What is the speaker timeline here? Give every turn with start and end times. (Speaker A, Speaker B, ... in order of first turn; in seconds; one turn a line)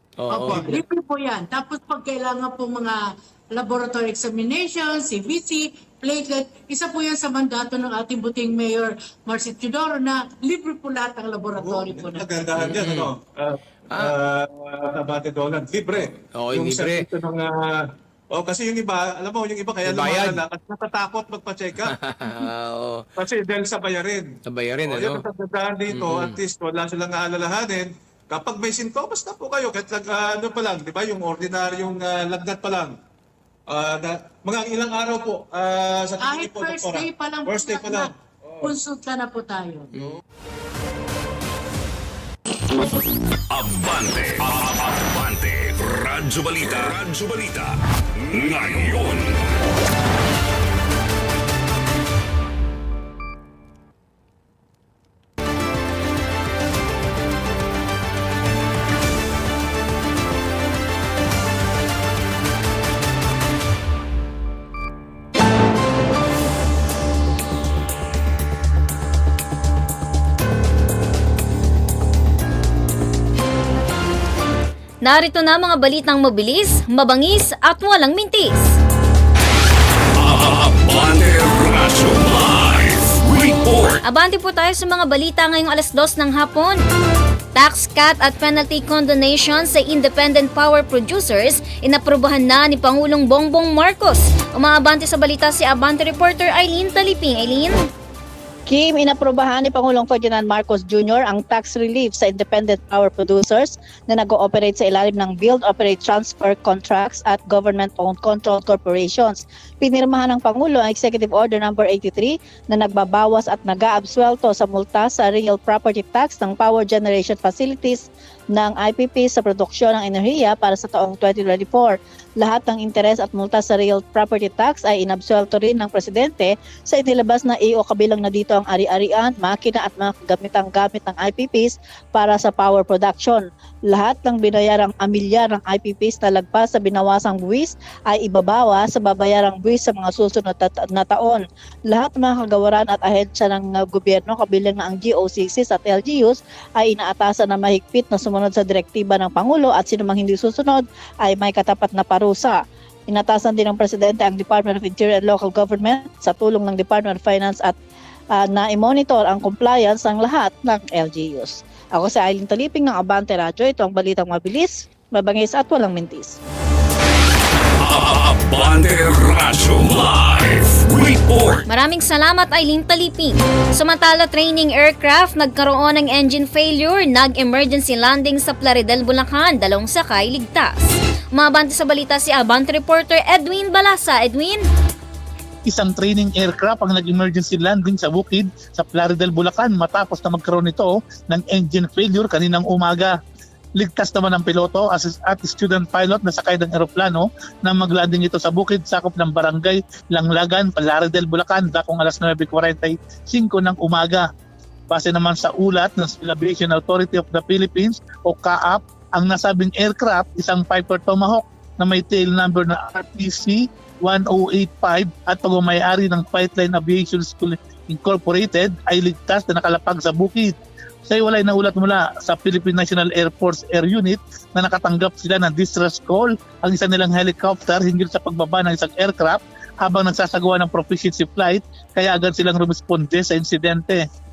Speaker A: 0.2-0.8
Speaker B: 0.3-12.3
Speaker C: 11.6-22.5
Speaker A: 12.5-13.1
Speaker A: 13.9-14.2
Speaker A: 16.0-17.1
Speaker A: 19.8-20.4
Speaker A: 21.8-23.1
Speaker C: 23.2-33.0
Speaker A: 24.4-25.2
Speaker A: 25.9-26.4
Speaker C: 33.7-38.1
Speaker B: 36.2-39.9
Speaker D: 43.5-49.4
Speaker E: 75.0-78.7
Speaker D: 80.2-84.0
Speaker E: 84.0-86.8
Speaker E: 87.5-97.8
Speaker F: 98.7-157.7
Speaker F: 158.3-166.4
Speaker D: 167.8-171.6
Speaker E: 171.7-184.7
Speaker G: 185.7-193.1
Speaker G: 193.8-204.3
Speaker G: 204.9-234.0